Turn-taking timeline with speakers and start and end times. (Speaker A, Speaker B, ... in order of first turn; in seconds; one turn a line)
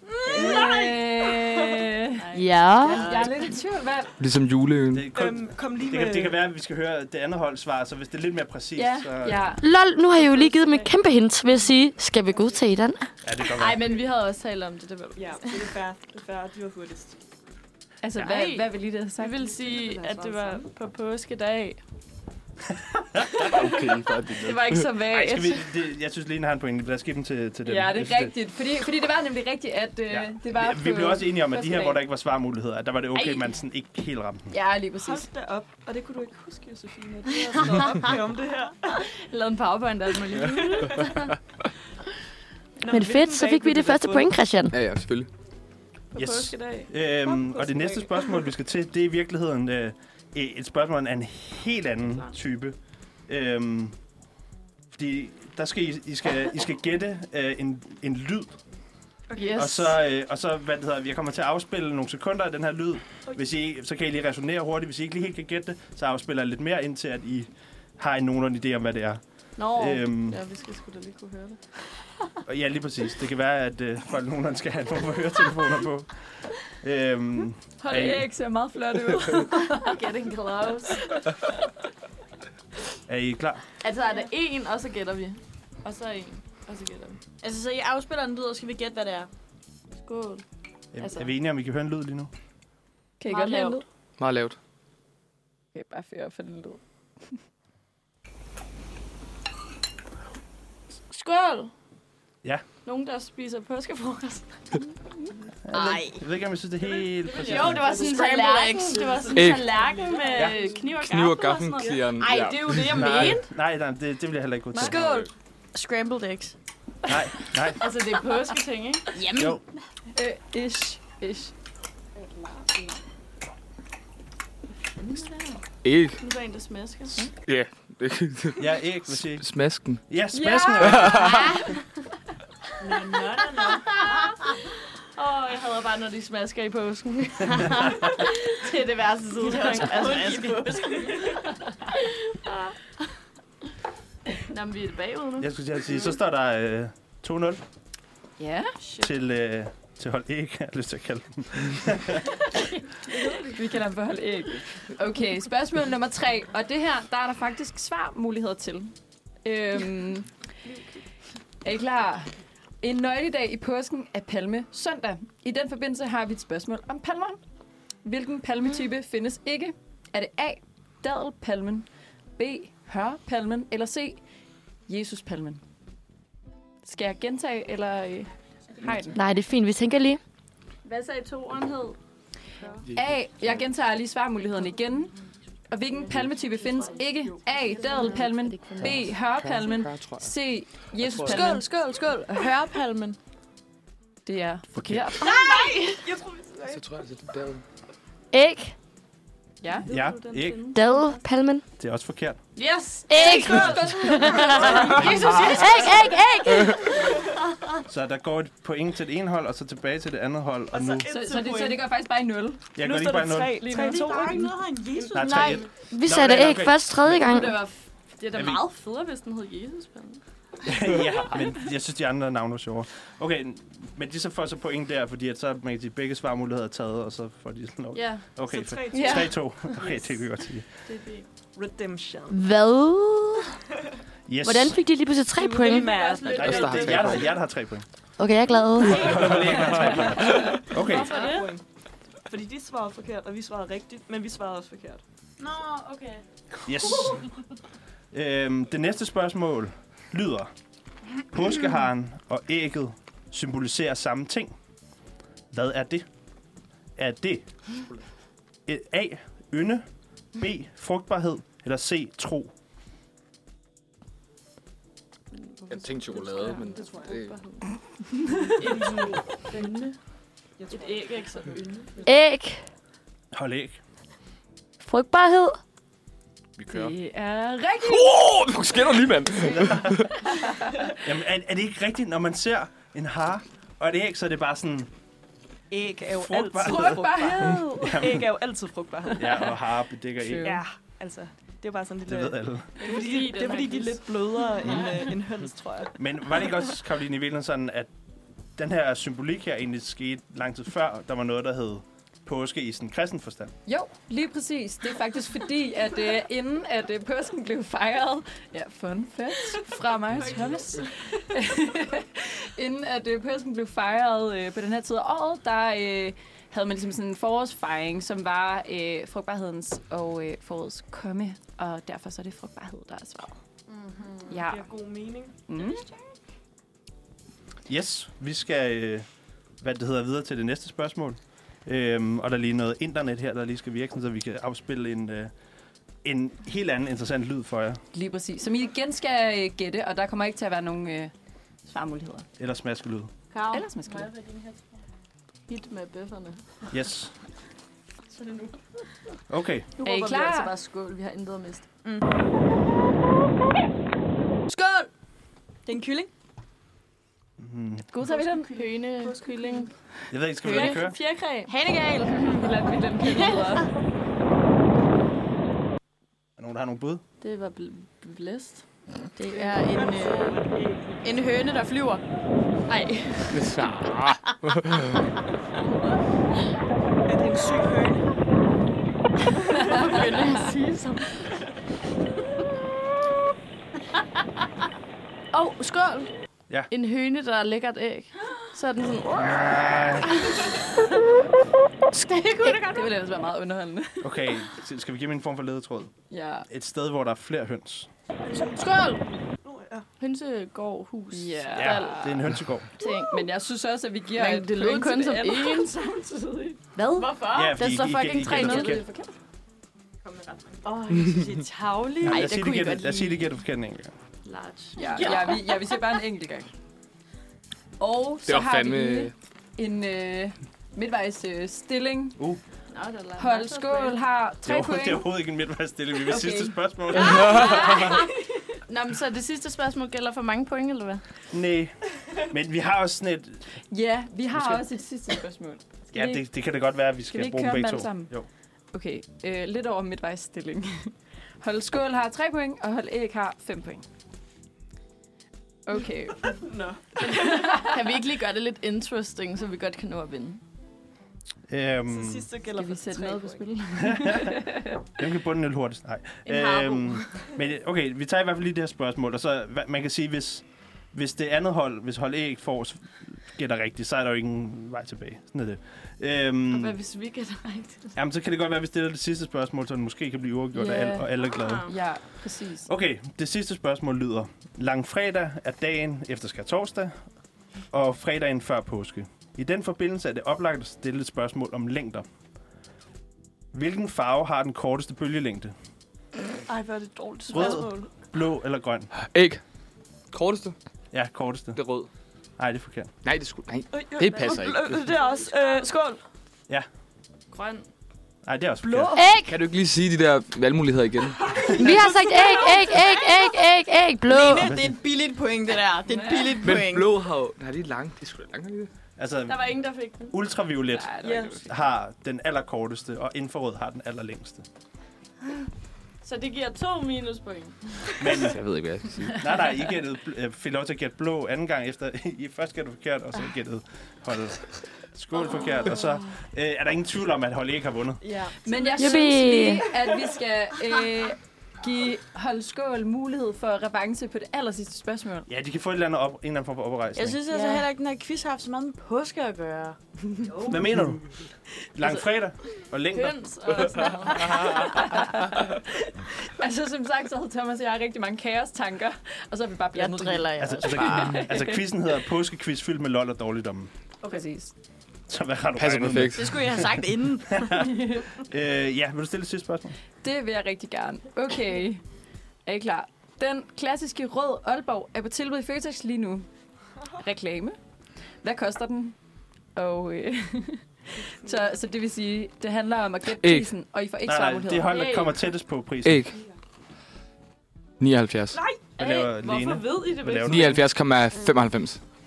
Speaker A: 0.3-1.8
Speaker B: 0.3-2.3
Speaker C: 0.5-0.8
Speaker C: 2.2-3.4
Speaker D: 2.3-3.1
Speaker E: 2.9-3.2
Speaker B: 2.9-4.2
Speaker A: 3.0-3.3
Speaker F: 4.2-5.1
Speaker G: 4.9-9.5
Speaker A: 5.1-6.4
Speaker B: 8.8-9.6
Speaker D: 9.6-13.1
Speaker C: 10.3-10.9
Speaker G: 13.2-13.8
Speaker C: 13.5-15.8
Speaker A: 15.2-17.2
Speaker B: 18.0-19.5
Speaker C: 18.2-21.8
Speaker A: 19.5-20.7
Speaker G: 22.8-23.5
Speaker F: 23.4-24.9
Speaker B: 24.4-25.7
Speaker G: 25.1-28.3
Speaker B: 27.6-32.0
Speaker G: 30.1-34.5
Speaker B: 34.5-35.3
Speaker A: 35.0-39.1
Speaker C: 39.1-41.2
Speaker A: 40.5-41.1
Speaker A: 42.8-44.3
Speaker D: 42.9-44.8
Speaker F: 44.7-45.3
Speaker C: 46.1-46.9
Speaker G: 46.1-52.8
Speaker A: 47.3-48.3
Speaker G: 53.3-54.0
Speaker G: 55.0-58.6
Speaker A: 59.3-59.7
Speaker C: 59.4-60.0
Speaker G: 59.6-70.4
Speaker C: 69.6-71.6
Speaker G: 72.5-78.3
Speaker B: 77.8-80.0
Speaker C: 79.6-81.2
Speaker G: 83.1-83.6
Speaker C: 83.8-87.2
Speaker E: 87.4-89.3
Speaker C: 90.0-90.4
Speaker G: 90.9-92.3
Speaker C: 91.0-91.3
Speaker B: 93.2-93.8
Speaker C: 93.3-93.8
Speaker F: 94.2-94.6
Speaker B: 95.7-96.8
Speaker C: 101.1-101.7
Speaker C: 102.8-104.8
Speaker G: 105.7-108.0
Speaker E: 105.7-106.2
Speaker C: 107.2-113.5
Speaker E: 107.4-109.3
Speaker A: 107.4-108.2
Speaker A: 108.9-110.8
Speaker F: 109.3-109.7
Speaker G: 110.3-110.6
Speaker F: 111.0-113.0
Speaker E: 112.3-113.3
Speaker G: 112.7-115.1
Speaker B: 114.8-115.2
Speaker C: 115.0-115.2
Speaker E: 115.7-116.6
Speaker G: 117.1-117.9
Speaker C: 117.8-119.2
Speaker E: 119.1-119.6
Speaker G: 119.3-119.6
Speaker B: 120.2-121.5
Speaker F: 125.8-126.2
Speaker E: 126.2-127.3
Speaker F: 127.3-130.0
Speaker G: 128.6-129.5
Speaker G: 130.1-131.5
Speaker B: 130.3-131.7
Speaker F: 130.8-131.4
Speaker E: 132.8-134.3
Speaker C: 132.8-134.6
Speaker C: 135.2-142.7
Speaker E: 139.4-141.3
Speaker C: 144.4-145.5
Speaker G: 145.4-147.6
Speaker B: 148.4-148.8
Speaker C: 148.8-149.1
Speaker G: 149.0-152.3
Speaker C: 153.1-153.6
Speaker B: 153.4-158.9
Speaker B: 159.4-160.3
Speaker B: 161.6-167.4
Speaker B: 168.0-174.2
Speaker B: 174.9-175.6
Speaker B: 176.8-179.2
Speaker D: 179.1-180.2
Speaker C: 180.8-182.0
Speaker B: 182.9-185.1
Speaker F: 182.9-183.6
Speaker B: 185.7-191.7
Speaker A: 187.0-188.2
Speaker C: 187.8-188.8
Speaker F: 188.8-190.3
Speaker F: 191.0-191.5
Speaker E: 191.2-193.2
Speaker C: 191.9-192.5
Speaker B: 194.3-195.3
Speaker F: 194.8-195.1
Speaker C: 195.2-196.1
Speaker A: 196.0-196.9
Speaker F: 196.7-197.6
Speaker D: 198.3-198.8
Speaker B: 199.6-199.9
Speaker C: 199.8-200.8
Speaker G: 199.9-200.7
Speaker D: 200.7-201.6
Speaker G: 201.8-202.4
Speaker C: 202.6-206.3
Speaker D: 203.1-206.9
Speaker A: 203.2-204.4
Speaker B: 203.3-205.5
Speaker G: 204.8-205.6
Speaker G: 207.9-211.1
Speaker A: 210.7-211.8
Speaker B: 211.1-212.7
Speaker G: 212.8-213.6
Speaker A: 212.8-214.5
Speaker C: 213.7-214.1
Speaker E: 213.7-215.7
Speaker G: 215.1-217.2
Speaker D: 215.2-217.6
Speaker B: 217.3-217.7
Speaker C: 218.2-220.2
Speaker G: 218.3-218.6
Speaker G: 220.7-230.7
Speaker A: 228.5-230.1
Speaker C: 228.9-229.9
Speaker C: 230.9-231.3
Speaker A: 231.5-232.4
Speaker D: 232.3-233.5
Speaker G: 234.3-234.8
Speaker D: 234.4-235.9
Speaker A: 235.4-237.3
Speaker C: 235.6-237.3
Speaker G: 236.3-237.9
Speaker F: 236.4-237.3
Speaker D: 238.2-239.3
Speaker G: 238.8-241.2
Speaker A: 240.2-241.6
Speaker C: 240.7-241.6
Speaker E: 241.1-241.4
Speaker A: 242.3-245.0
Speaker E: 245.4-246.2
Speaker G: 246.7-247.2
Speaker G: 248.1-250.5
Speaker G: 251.2-254.6
Speaker G: 255.5-256.1
Speaker G: 257.0-257.5
Speaker G: 258.7-259.9
Speaker G: 260.4-262.5
Speaker C: 265.4-267.6
Speaker F: 265.7-267.4
Speaker C: 268.5-269.9
Speaker A: 268.6-269.2
Speaker A: 270.6-271.3
Speaker C: 270.7-272.1
Speaker D: 272.0-272.6
Speaker G: 273.3-273.8
Speaker D: 274.8-275.6
Speaker F: 276.6-276.9
Speaker B: 276.7-278.4
Speaker F: 277.8-280.1
Speaker G: 279.6-279.9
Speaker B: 280.3-280.6
Speaker G: 281.0-284.9
Speaker A: 285.7-289.5
Speaker G: 286.1-288.3
Speaker B: 286.6-288.1
Speaker G: 289.2-290.5
Speaker B: 290.2-290.6
Speaker A: 290.4-296.0
Speaker G: 292.1-292.7
Speaker C: 292.8-294.9
Speaker G: 296.0-297.9
Speaker G: 298.6-303.5
Speaker B: 303.7-323.4
Speaker B: 324.3-324.7
Speaker A: 324.5-325.4
Speaker B: 325.5-325.9
Speaker G: 327.7-329.1
Speaker G: 329.6-335.3
Speaker G: 336.0-337.8
Speaker B: 337.9-341.1
Speaker B: 341.7-342.3
Speaker G: 342.4-343.1
Speaker C: 343.3-344.6
Speaker B: 343.5-344.1
Speaker C: 345.5-346.4
Speaker G: 346.7-347.1
Speaker C: 348.1-348.5
Speaker G: 349.3-349.7
Speaker C: 349.8-351.7
Speaker B: 349.8-350.5
Speaker C: 354.5-354.9
Speaker E: 355.7-356.1
Speaker G: 357.4-357.9
Speaker B: 357.9-358.7
Speaker C: 358.1-359.7
Speaker G: 360.1-361.0
Speaker C: 360.4-361.5
Speaker E: 361.5-362.5
Speaker B: 362.3-363.7
Speaker C: 363.1-363.4
Speaker G: 366.4-367.0
Speaker C: 367.2-368.6
Speaker E: 369.2-370.4
Speaker C: 369.2-370.4
Speaker A: 369.3-371.0
Speaker E: 371.0-372.0
Speaker C: 372.7-373.5
Speaker F: 373.3-374.9
Speaker A: 377.1-378.0
Speaker C: 379.7-381.1
Speaker E: 379.9-380.5
Speaker C: 385.3-386.1
Speaker C: 386.7-390.5
Speaker G: 389.2-390.2
Speaker C: 391.9-392.8
Speaker E: 392.4-392.8
Speaker B: 392.6-394.4
Speaker G: 394.0-395.9
Speaker B: 396.1-396.5
Speaker G: 396.5-397.9
Speaker C: 398.4-399.0
Speaker A: 399.4-399.9
Speaker C: 400.0-402.1
Speaker B: 401.1-402.3
Speaker G: 401.6-402.7
Speaker C: 402.8-403.2
Speaker B: 402.8-406.6
Speaker C: 404.1-405.8
Speaker C: 406.8-408.8
Speaker E: 406.9-407.6
Speaker G: 407.3-408.8
Speaker B: 408.2-409.1
Speaker C: 410.1-410.6
Speaker E: 410.6-412.4
Speaker G: 412.0-413.9
Speaker C: 412.1-413.1
Speaker C: 414.2-415.4
Speaker E: 414.8-415.6
Speaker B: 414.8-416.5
Speaker B: 417.8-422.2
Speaker F: 418.3-419.1
Speaker C: 422.7-424.0
Speaker B: 423.2-425.1
Speaker G: 424.4-428.0
Speaker B: 426.1-426.6
Speaker F: 427.1-427.3
Speaker B: 427.2-427.9
Speaker C: 427.7-427.9
Speaker C: 428.7-431.0
Speaker G: 431.3-433.4
Speaker B: 433.7-436.3
Speaker G: 435.9-438.3
Speaker B: 437.1-438.1
Speaker B: 438.7-443.9
Speaker B: 445.7-446.4
Speaker A: 446.4-447.4
Speaker C: 447.0-450.4
Speaker G: 451.5-452.3
Speaker A: 451.9-453.4
Speaker B: 452.5-454.8
Speaker G: 453.8-454.3
Speaker G: 455.0-466.8
Speaker C: 456.2-457.3
Speaker C: 466.5-468.0
Speaker G: 468.0-471.8
Speaker B: 470.5-471.1
Speaker C: 471.3-471.7
Speaker B: 471.7-472.7
Speaker G: 472.6-477.0
Speaker G: 477.7-482.1
Speaker G: 483.5-485.5
Speaker A: 486.5-487.9
Speaker C: 487.3-487.6
Speaker G: 487.3-488.9
Speaker F: 489.0-489.4
Speaker F: 490.1-490.6
Speaker G: 490.9-491.6
Speaker F: 491.6-491.9
Speaker G: 492.4-492.9
Speaker F: 493.0-494.8
Speaker A: 493.7-496.0
Speaker C: 497.3-497.6
Speaker G: 498.2-499.0
Speaker A: 498.6-499.1
Speaker D: 498.9-499.4
Speaker F: 499.2-501.2
Speaker A: 501.3-502.6
Speaker D: 501.6-504.5
Speaker E: 504.1-506.9
Speaker G: 504.3-504.8
Speaker B: 505.9-506.5
Speaker F: 506.4-508.7
Speaker G: 509.0-509.5
Speaker C: 509.3-510.1
Speaker G: 510.1-514.5
Speaker B: 510.7-511.5
Speaker C: 516.0-518.2
Speaker G: 518.0-518.4
Speaker F: 518.2-519.2
Speaker G: 519.1-528.0
Speaker A: 528.0-528.3
Speaker B: 528.4-535.3
Speaker D: 528.8-529.7
Speaker G: 535.3-537.2
Speaker E: 537.0-539.8
Speaker C: 537.3-537.6
Speaker G: 540.5-541.1
Speaker G: 541.8-543.9
Speaker C: 542.9-544.4
Speaker B: 544.3-551.7
Speaker E: 549.7-551.3
Speaker G: 550.4-553.7
Speaker B: 554.0-554.5
Speaker G: 555.1-556.7
Speaker F: 555.6-556.4
Speaker E: 556.1-557.7
Speaker G: 557.3-559.8
Speaker B: 560.0-561.8
Speaker B: 562.5-566.3
Speaker B: 567.0-567.6
Speaker B: 568.2-569.0
Speaker B: 569.5-574.8
Speaker F: 573.2-573.5
Speaker G: 574.0-576.1
Speaker C: 574.7-575.2
Speaker F: 575.8-576.1
Speaker F: 577.8-578.4
Speaker C: 578.4-580.5
Speaker G: 578.8-580.7
Speaker F: 580.2-581.8